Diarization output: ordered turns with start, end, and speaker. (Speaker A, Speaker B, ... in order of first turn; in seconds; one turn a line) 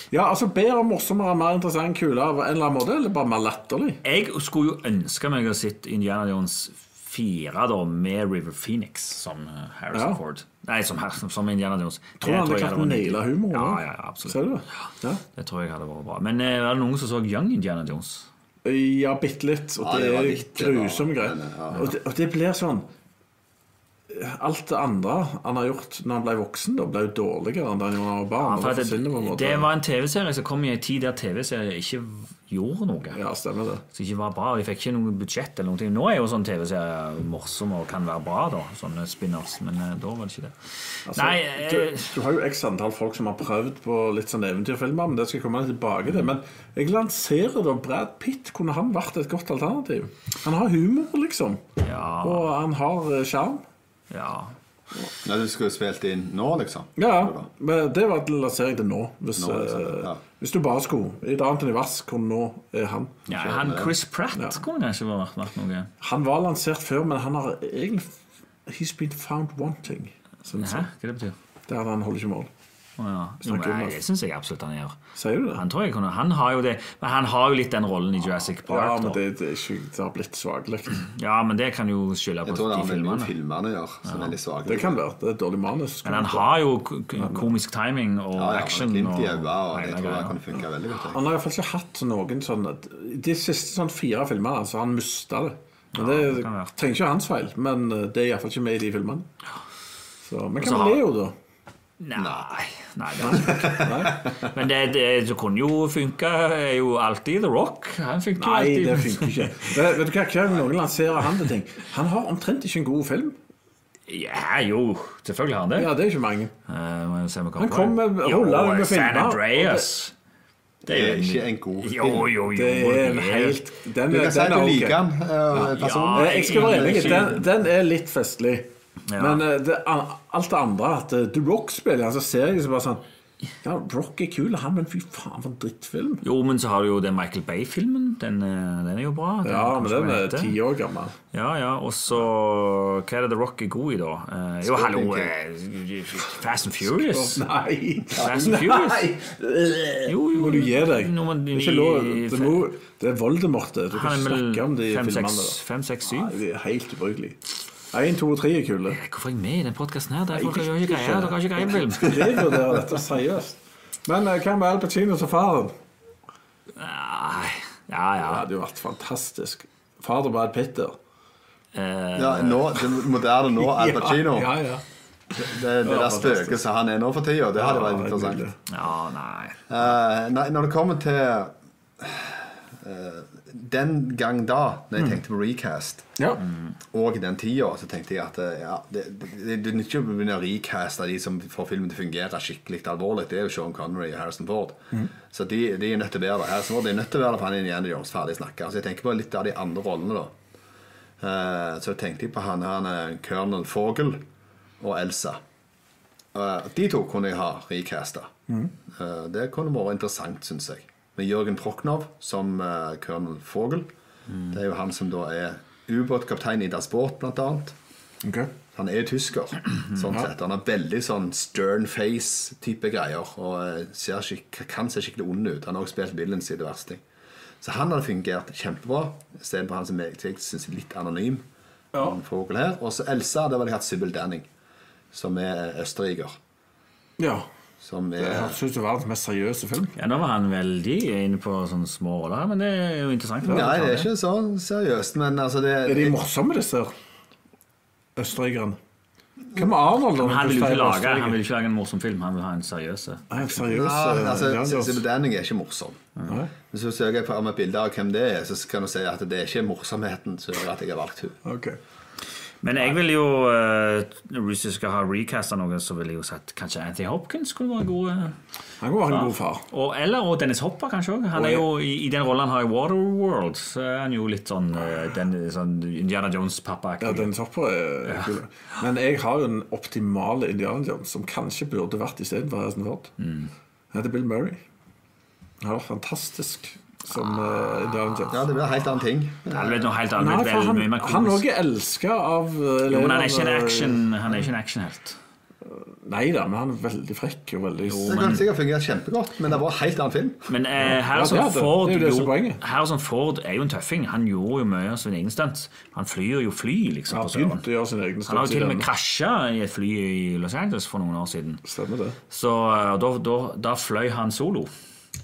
Speaker A: 0.1-4.0
Speaker B: 4.0-14.4
Speaker A: 9.9-10.2
Speaker A: 12.2-15.2
Speaker B: 15.3-18.3
Speaker A: 18.6-22.9
Speaker C: 19.8-21.9
Speaker A: 24.1-29.7
Speaker B: 28.4-33.2
Speaker A: 33.1-33.8
Speaker B: 33.9-40.6
Speaker A: 41.1-51.6
Speaker B: 41.1-42.1
Speaker B: 51.8-52.5
Speaker A: 52.2-53.6
Speaker B: 54.1-54.6
Speaker C: 55.2-57.5
Speaker A: 57.0-63.2
Speaker C: 59.4-60.2
Speaker C: 63.3-64.0
Speaker B: 63.3-65.9
Speaker A: 64.3-64.6
Speaker A: 66.0-70.9
Speaker B: 70.6-71.4
Speaker A: 71.7-72.5
Speaker B: 73.0-75.0
Speaker A: 73.4-74.0
Speaker A: 75.2-75.6
Speaker B: 75.5-79.2
Speaker A: 78.7-81.0
Speaker B: 81.0-83.3
Speaker C: 82.5-85.0
Speaker B: 84.1-84.3
Speaker A: 84.7-86.5
Speaker B: 86.0-90.4
Speaker A: 87.2-87.5
Speaker C: 88.3-91.2
Speaker A: 91.1-99.3
Speaker B: 96.0-96.7
Speaker A: 100.2-101.3
Speaker B: 100.6-101.0
Speaker B: 102.0-109.5
Speaker C: 102.2-102.5
Speaker A: 103.2-104.2
Speaker C: 103.4-104.5
Speaker A: 108.4-113.4
Speaker B: 114.1-115.9
Speaker A: 115.8-116.5
Speaker B: 116.7-120.1
Speaker A: 117.6-119.9
Speaker C: 120.8-122.4
Speaker B: 120.9-123.7
Speaker A: 122.5-125.0
Speaker C: 124.1-127.4
Speaker B: 125.6-127.4
Speaker A: 126.1-133.0
Speaker B: 129.1-129.4
Speaker A: 133.6-136.2
Speaker B: 136.2-140.6
Speaker A: 139.4-141.2
Speaker B: 141.3-147.4
Speaker C: 144.6-145.3
Speaker A: 147.0-159.0
Speaker B: 148.2-149.1
Speaker B: 150.1-152.7
Speaker B: 153.9-156.3
Speaker B: 158.9-162.4
Speaker A: 160.3-165.8
Speaker B: 166.8-168.4
Speaker A: 168.2-171.0
Speaker B: 171.8-172.9
Speaker C: 172.2-174.6
Speaker A: 173.6-174.8
Speaker A: 175.4-176.6
Speaker C: 175.4-178.4
Speaker A: 177.6-178.6
Speaker B: 178.7-179.7
Speaker C: 179.7-186.2
Speaker A: 186.2-186.4
Speaker C: 186.9-200.3
Speaker C: 201.2-204.2
Speaker C: 204.8-205.4
Speaker C: 206.3-208.3
Speaker C: 208.9-213.9
Speaker C: 214.5-217.8
Speaker A: 218.2-218.5
Speaker C: 218.7-227.0
Speaker C: 227.6-234.5
Speaker A: 231.9-232.2
Speaker C: 235.1-236.4
Speaker A: 237.2-237.5
Speaker C: 237.8-238.6
Speaker A: 238.2-240.0
Speaker B: 240.0-244.1
Speaker C: 243.4-246.2
Speaker A: 245.8-246.9
Speaker A: 248.2-248.8
Speaker A: 249.6-251.4
Speaker B: 250.2-253.4
Speaker A: 253.3-255.0
Speaker C: 253.7-256.1
Speaker A: 256.3-256.5
Speaker C: 256.6-261.4
Speaker A: 261.4-261.8
Speaker B: 262.6-268.4
Speaker A: 268.8-269.7
Speaker B: 269.1-277.3
Speaker A: 271.4-271.7
Speaker A: 277.0-283.1
Speaker B: 283.2-283.5
Speaker A: 283.9-284.6
Speaker A: 285.6-288.4
Speaker B: 287.4-288.4
Speaker C: 288.3-289.9
Speaker B: 289.5-291.4
Speaker A: 290.1-294.1
Speaker B: 292.9-295.2
Speaker A: 295.6-298.2
Speaker B: 297.9-298.5
Speaker C: 298.1-300.5
Speaker B: 300.5-307.6
Speaker A: 300.9-302.6
Speaker A: 307.1-308.9
Speaker B: 308.3-311.6
Speaker A: 311.6-312.2
Speaker B: 312.3-314.7